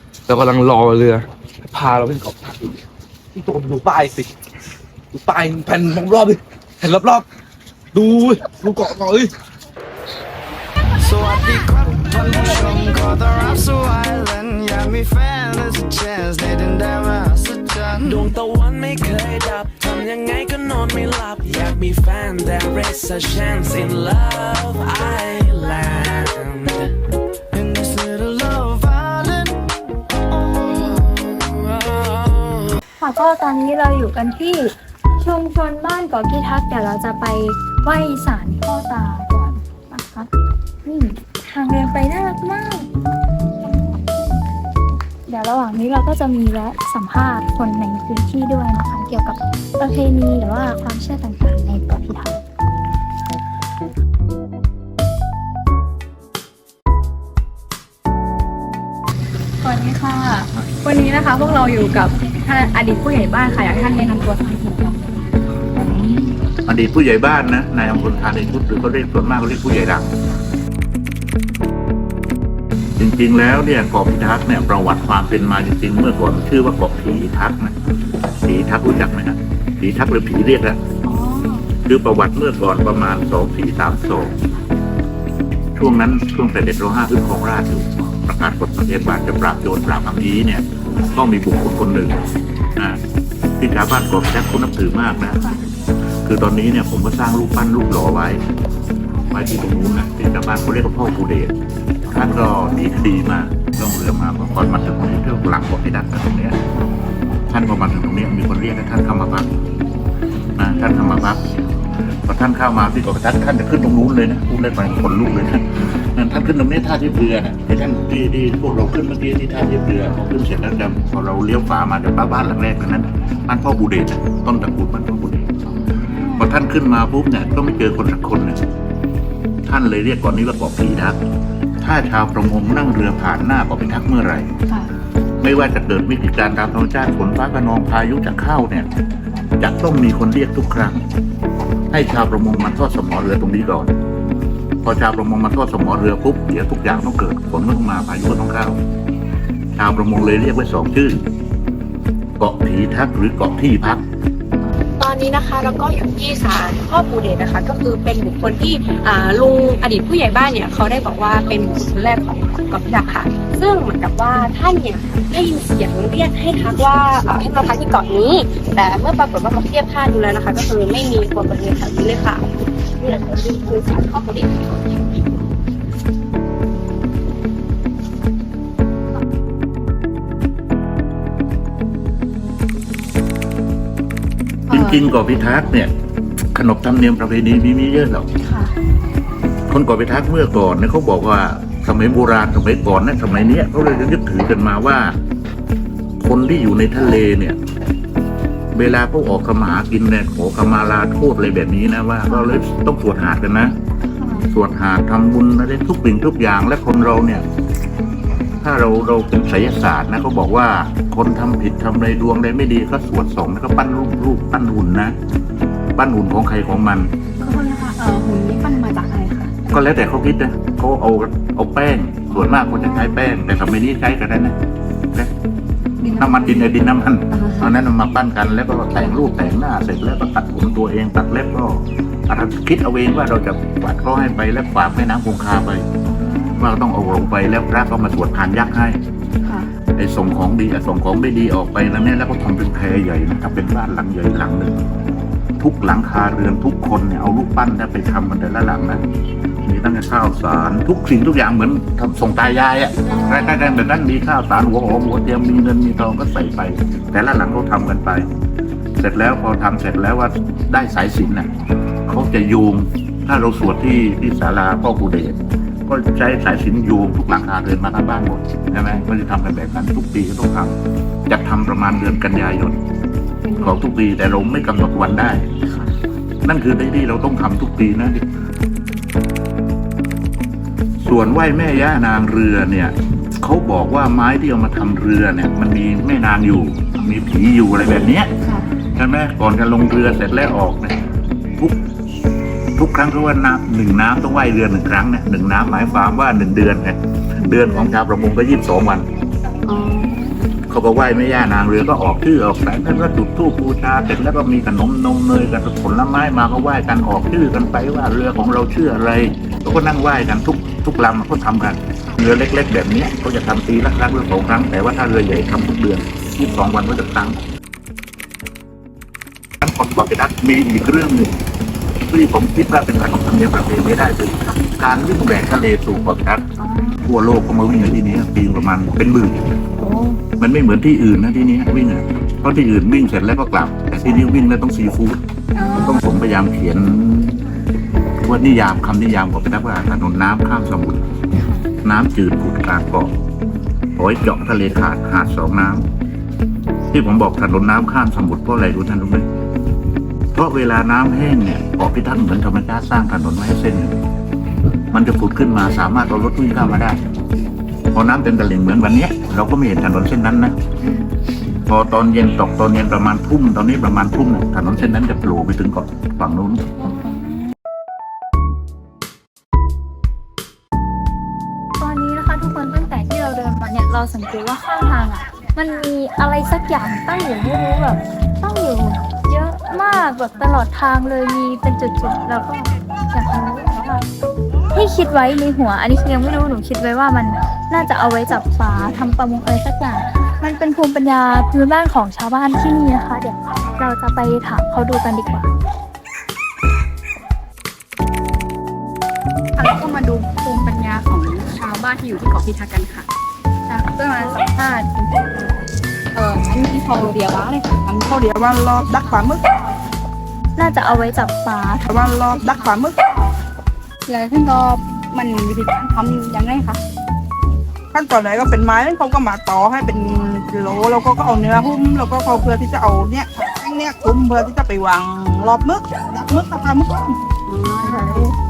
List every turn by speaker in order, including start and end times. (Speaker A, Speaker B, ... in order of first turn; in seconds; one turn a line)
Speaker A: 0.3-2.7
Speaker A: 3.3-4.3
Speaker A: 5.1-7.2
Speaker A: 7.9-9.3
Speaker B: 11.0-18.2
Speaker C: 18.0-26.9
Speaker B: 27.5-29.6
Speaker D: 33.0-40.3
Speaker D: 40.8-42.9
Speaker D: 45.3-52.4
Speaker E: 59.6-65.0
Speaker F: 65.7-70.1
Speaker F: 73.0-77.7
Speaker F: 78.4-80.8
Speaker E: 81.0-81.7
Speaker F: 81.8-84.3
Speaker F: 85.8-92.2
Speaker F: 93.6-95.5
Speaker F: 96.2-98.4
Speaker F: 99.3-101.5
Speaker F: 102.1-106.6
Speaker F: 107.5-109.5
Speaker F: 110.6-111.4
Speaker F: 112.3-125.5
Speaker E: 125.9-126.5
Speaker F: 126.3-128.6
Speaker F: 129.7-131.2
Speaker F: 131.8-134.5
Speaker F: 135.4-138.9
Speaker F: 139.6-141.0
Speaker F: 141.9-143.9
Speaker F: 144.8-148.8
Speaker F: 149.8-151.2
Speaker F: 152.4-154.0
Speaker G: 154.8-172.4
Speaker G: 172.9-174.8
Speaker E: 184.7-185.0
Speaker F: 184.7-185.9
Speaker F: 186.5-188.3
Speaker E: 188.4-188.7
Speaker F: 189.7-195.1
Speaker F: 196.2-197.6
Speaker F: 198.7-203.7
Speaker E: 202.3-202.5
Speaker E: 204.2-204.4
Speaker F: 204.5-207.4
Speaker F: 208.6-215.1
Speaker F: 215.9-217.1
Speaker E: 217.4-219.5
Speaker F: 219.7-224.5
Speaker E: 222.3-223.2
Speaker E: 226.0-226.7
Speaker F: 226.2-235.8
Speaker E: 227.3-227.7
Speaker E: 236.1-236.7
Speaker F: 236.6-239.0
Speaker F: 240.0-244.8
Speaker F: 245.6-249.0
Speaker F: 249.6-258.2
Speaker F: 259.0-261.5
Speaker F: 262.1-270.7
Speaker F: 271.3-272.8
Speaker E: 273.4-273.8
Speaker F: 273.6-275.4
Speaker E: 275.7-275.9
Speaker F: 276.4-278.2
Speaker F: 281.0-288.3
Speaker F: 288.9-291.0
Speaker F: 292.8-299.1
Speaker E: 297.4-298.0
Speaker E: 299.6-300.4
Speaker F: 300.7-317.4
Speaker F: 319.6-321.3
Speaker F: 322.1-326.4
Speaker E: 326.6-327.0
Speaker F: 327.0-329.4
Speaker E: 329.8-330.2
Speaker F: 330.4-337.4
Speaker E: 335.5-336.0
Speaker F: 338.2-341.0
Speaker E: 341.4-341.6
Speaker F: 341.8-343.1
Speaker F: 343.9-345.9
Speaker F: 346.9-349.2
Speaker F: 350.3-353.9
Speaker F: 354.9-357.0
Speaker F: 357.9-360.5
Speaker F: 361.6-366.8
Speaker D: 371.8-384.0
Speaker D: 384.7-395.5
Speaker E: 399.6-403.1
Speaker E: 403.7-408.2
Speaker H: 408.1-409.4
Speaker D: 410.6-411.9
Speaker H: 411.9-413.2
Speaker E: 414.1-416.8
Speaker H: 417.9-427.2
Speaker E: 427.5-428.3
Speaker H: 427.9-428.3